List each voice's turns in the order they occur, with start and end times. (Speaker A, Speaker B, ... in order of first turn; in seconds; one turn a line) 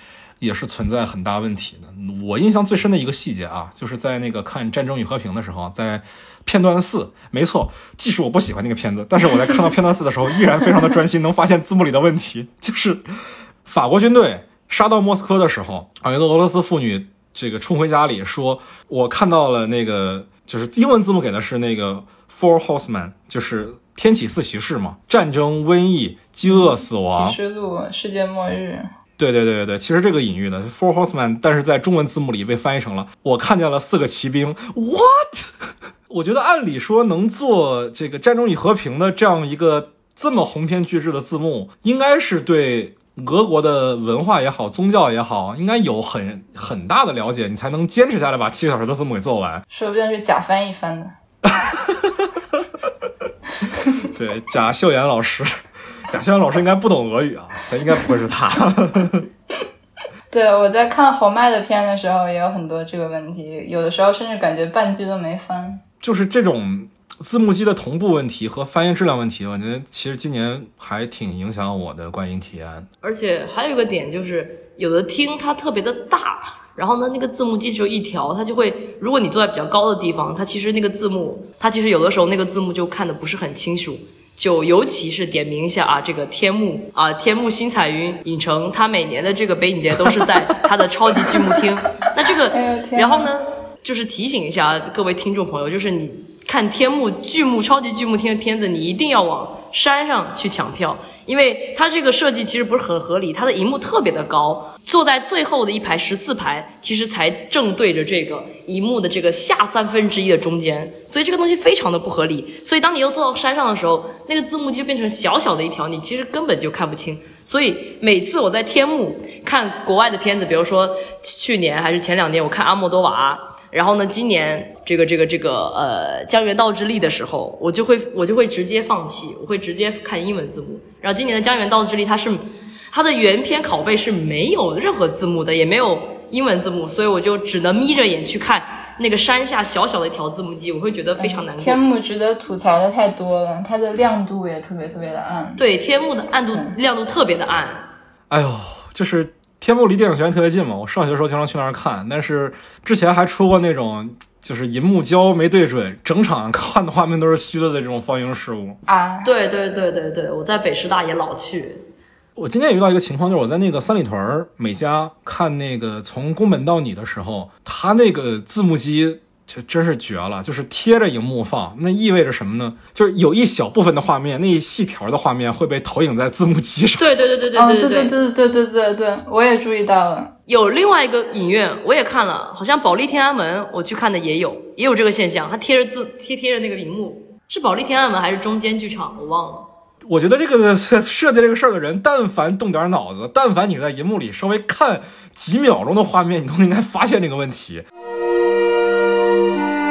Speaker A: 0.4-13.1
Speaker A: 13.6-27.4
Speaker B: 26.4-28.9
Speaker A: 29.2-49.6
Speaker B: 49.7-51.1
Speaker A: 51.5-52.6
Speaker A: 54.1-59.2
Speaker B: 60.3-65.8
Speaker A: 66.0-72.9
Speaker C: 73.0-141.8
Speaker B: 92.5-93.3
Speaker B: 141.2-145.6
Speaker C: 145.6-147.9
Speaker A: 148.3-158.8
Speaker B: 158.9-159.3
Speaker C: 159.2-161.8
Speaker A: 162.3-177.1
Speaker C: 177.0-178.1
Speaker B: 177.5-180.3
Speaker C: 180.5-189.7
Speaker A: 190.1-197.8